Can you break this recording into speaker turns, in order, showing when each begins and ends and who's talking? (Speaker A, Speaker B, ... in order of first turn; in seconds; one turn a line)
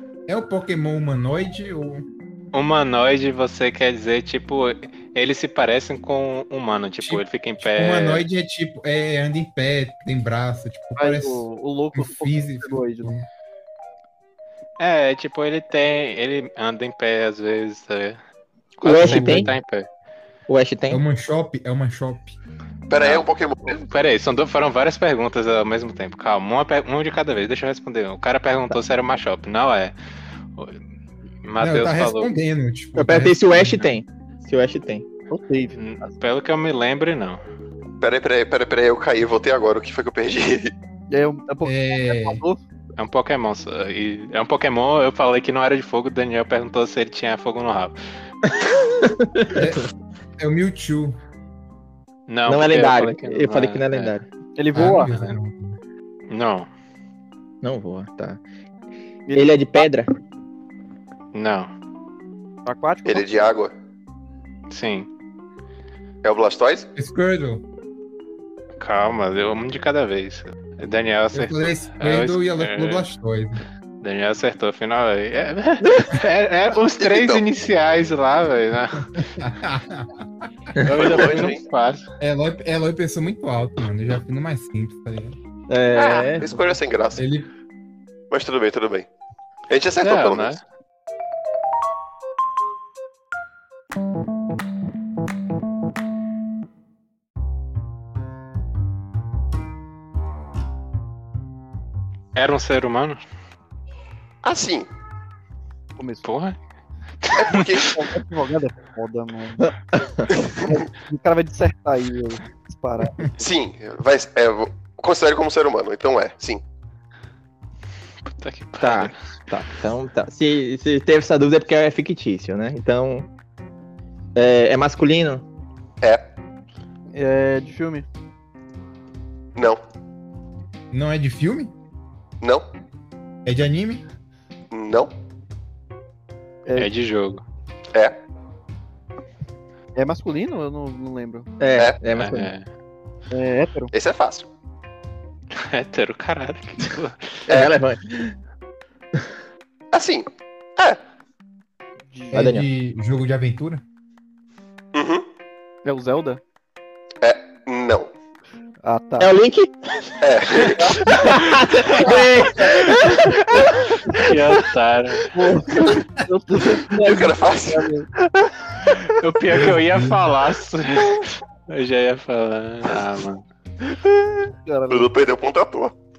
Speaker A: 0.3-2.0
Speaker B: 2.5-8.3
Speaker A: 7.0-13.3
Speaker C: 11.0-13.1
Speaker B: 14.8-18.2
Speaker B: 18.8-19.9
Speaker D: 18.8-19.5
Speaker A: 18.9-19.6
Speaker D: 20.5-21.0
Speaker A: 20.9-22.4
Speaker E: 22.9-23.9
Speaker B: 22.9-29.9
Speaker B: 31.4-32.3
Speaker A: 31.6-33.9
Speaker D: 33.0-35.1
Speaker C: 35.3-36.1
Speaker B: 35.8-37.4
Speaker E: 38.0-40.7
Speaker C: 41.1-42.6
Speaker A: 41.6-42.4
Speaker B: 43.0-48.0
Speaker D: 48.9-49.7
Speaker A: 49.5-49.9
Speaker A: 50.4-51.2
Speaker B: 52.3-54.1
Speaker D: 52.5-54.3
Speaker C: 54.6-55.1
Speaker A: 54.7-55.8
Speaker B: 54.9-55.4
Speaker B: 56.3-56.7
Speaker D: 57.6-58.4
Speaker C: 59.3-59.9
Speaker D: 59.4-60.1
Speaker B: 61.3-61.7
Speaker C: 62.6-63.3
Speaker E: 63.0-63.7
Speaker B: 64.7-65.1
Speaker E: 66.2-66.9
Speaker A: 67.0-67.6
Speaker B: 68.8-73.1
Speaker A: 71.3-73.6
Speaker B: 74.0-79.2
Speaker D: 75.8-76.1
Speaker E: 77.0-77.4
Speaker A: 79.2-80.1
Speaker B: 80.8-82.1
Speaker E: 80.9-81.6
Speaker A: 82.2-85.4
Speaker D: 85.7-86.6
Speaker E: 86.0-87.2
Speaker A: 87.2-87.5
Speaker E: 88.3-89.1
Speaker E: 89.7-90.6
Speaker B: 90.0-90.6
Speaker B: 102.3-103.2
Speaker E: 104.4-104.9
Speaker C: 106.0-106.3
Speaker B: 106.2-106.6
Speaker B: 107.2-107.8
Speaker E: 107.3-107.9
Speaker C: 107.8-109.8
Speaker C: 110.3-113.4
Speaker E: 113.4-116.6
Speaker B: 118.3-119.2
Speaker D: 118.8-123.3
Speaker D: 124.3-125.4
Speaker E: 126.0-126.3
Speaker C: 127.1-128.1
Speaker E: 129.6-129.8
Speaker A: 130.9-131.7
Speaker E: 132.4-132.7
Speaker A: 133.4-134.0
Speaker E: 134.7-135.1
Speaker B: 136.8-137.4
Speaker C: 140.0-141.5
Speaker D: 141.6-142.5
Speaker B: 142.1-142.7
Speaker C: 143.3-143.9
Speaker E: 143.9-144.5
Speaker B: 145.5-147.5
Speaker D: 147.5-148.3
Speaker E: 149.9-151.0
Speaker C: 152.1-152.6
Speaker A: 152.3-153.8
Speaker D: 152.3-152.7
Speaker E: 154.9-155.3
Speaker C: 155.8-156.4
Speaker E: 157.2-158.1
Speaker C: 158.8-159.3
Speaker D: 159.2-163.4
Speaker E: 160.2-161.2
Speaker C: 160.8-164.6
Speaker B: 164.1-165.3
Speaker C: 165.3-168.1
Speaker E: 166.9-167.9
Speaker B: 168.9-173.4
Speaker A: 169.5-170.3
Speaker C: 174.2-175.1
Speaker E: 174.9-175.9